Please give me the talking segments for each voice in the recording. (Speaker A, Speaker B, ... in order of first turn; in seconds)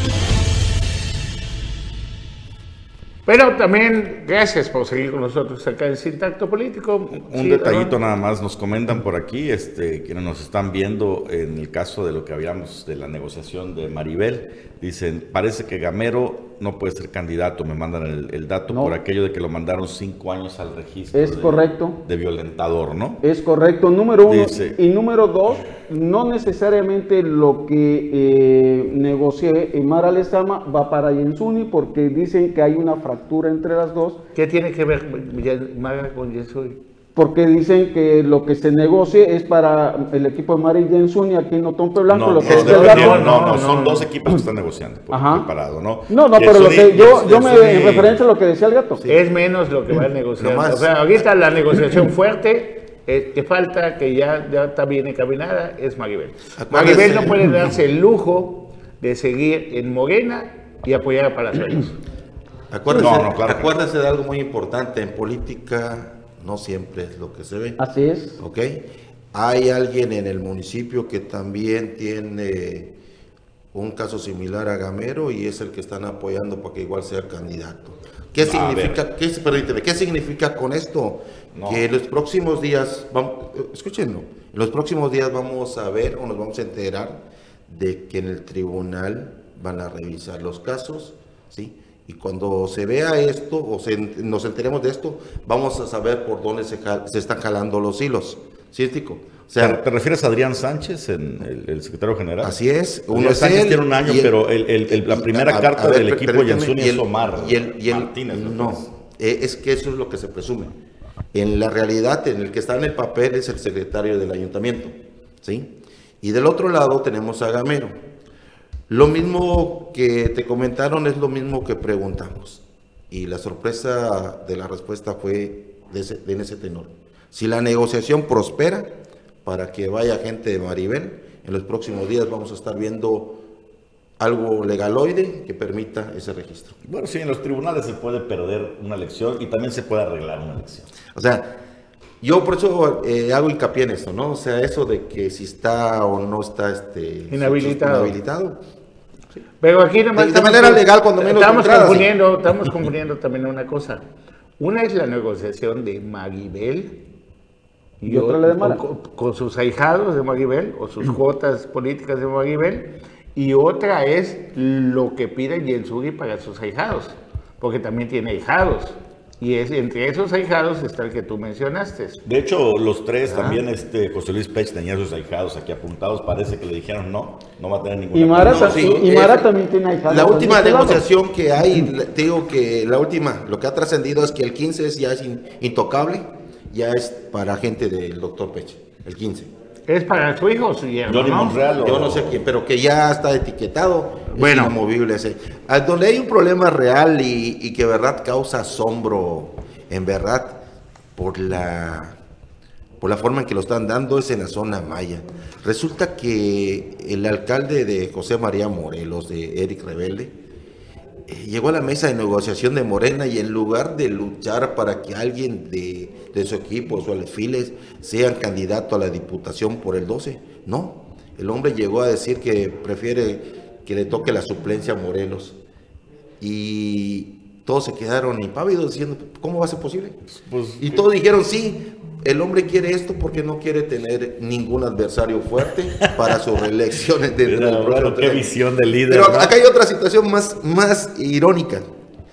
Speaker A: 3.2-7.9, 34.3-36.8, 42.6-44.1, 49.1-62.0, 147.3-148.2, 149.6-154.0, 154.6-157.0, 158.0-172.2, 189.9-191.6, 194.3-194.7
Speaker B: 7.1-23.2, 24.2-24.8, 42.1-48.2, 62.9-63.7, 78.4-79.0, 81.5-81.8, 99.6-102.6, 103.1-108.9, 136.8-140.9, 172.2-179.2, 191.1-192.4, 230.3-231.0, 236.0-236.3, 237.4-239.5
Speaker C: 21.1-22.0, 23.2-34.2, 37.1-43.2, 45.1-45.5, 46.1-49.0, 67.8-68.4, 158.0-158.8, 178.1-181.0
Speaker D: 42.4-43.0, 50.4-50.9, 56.6-57.7, 62.7-67.8, 68.4-72.9, 73.7-99.8, 102.4-110.8, 111.3-117.9, 118.9-128.9, 129.4-133.4, 134.2-136.8, 141.1-141.6, 142.2-148.6, 150.1-152.1, 173.2-173.6, 178.4-179.5, 180.1-189.5, 191.8-200.6, 201.2-202.2, 203.0-210.3, 211.3-225.6, 226.4-230.2, 230.8-238.5, 239.1-241.9